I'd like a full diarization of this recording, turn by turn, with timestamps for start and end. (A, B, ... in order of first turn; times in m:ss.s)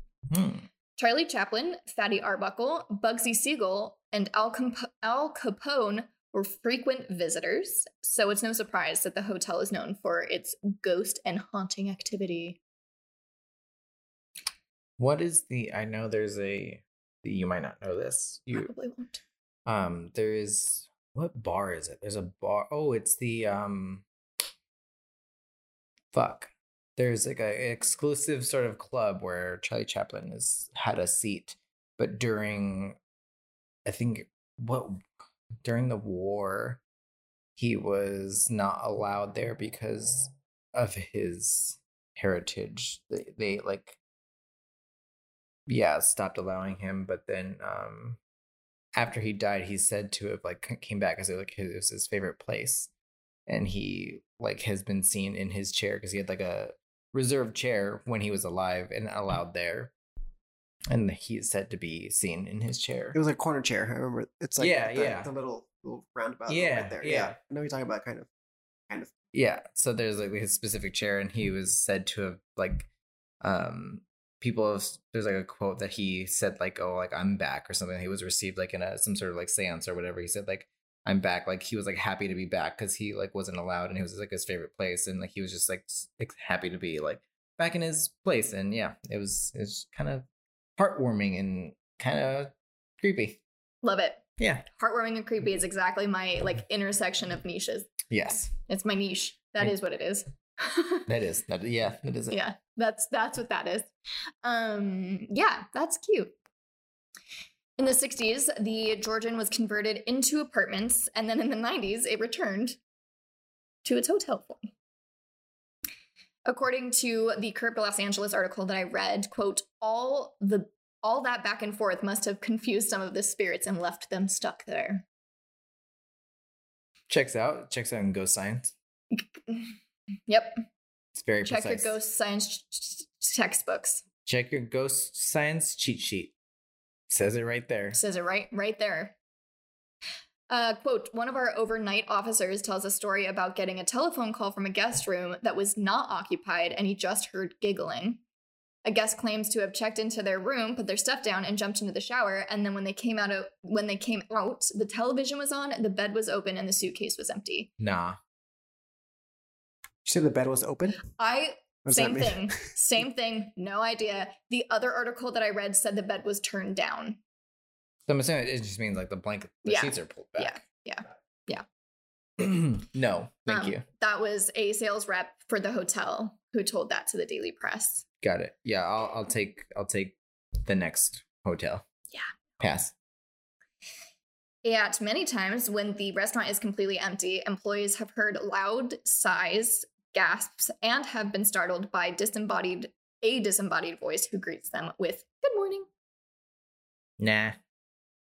0:00.3-0:00.7 A
0:01.0-0:12.6 B
0:15.0-0:18.7 A
0:18.5-0:19.2 B
0:19.6-0:24.0 A
0:26.1-0:33.0 A
0:33.8-0:35.0 A
0:35.6-0:36.8 A
0:37.6-0:44.0 A
0:45.7-0:48.2 A
0:48.9-0:52.9 A
0:53.5-0:59.9 A
1:00.9-1:03.2 A
1:03.1-1:08.3 C
1:04.6-1:05.3 A
1:06.5-1:07.3 A
1:08.9-1:09.1 C
1:09.3-1:12.9 A
1:13.4-1:30.3 A
1:30.8-1:33.4 A
1:33.8-1:38.0 B
1:34.4-1:34.6 A
1:38.1-1:38.5 A
1:38.6-1:41.1 B
1:41.1-1:42.4 A
1:42.3-1:43.9 B
1:44.4-1:46.3 B
1:47.8-1:52.8 B
1:53.8-1:54.7 B
1:56.4-2:05.0 B
2:07.1-2:08.7 A
2:09.1-2:09.8 B
2:10.3-2:10.6 B
2:11.1-2:11.9 A
2:11.4-2:14.0 B
2:14.2-2:16.3 A
2:17.1-2:18.0 A
2:17.9-2:19.2 B
2:20.5-2:28.2 B
2:28.8-2:37.7 B
2:37.8-2:38.2 A
2:40.0-2:41.0 C
2:41.2-2:47.2 B
2:41.8-2:42.6 C
2:48.1-2:50.6 A
2:49.6-2:51.6 B
2:52.4-2:53.8 A
2:53.5-2:58.0 B
2:58.2-3:01.8 A
3:02.6-3:02.9 A
3:04.6-3:15.9 B
3:17.2-3:17.6 A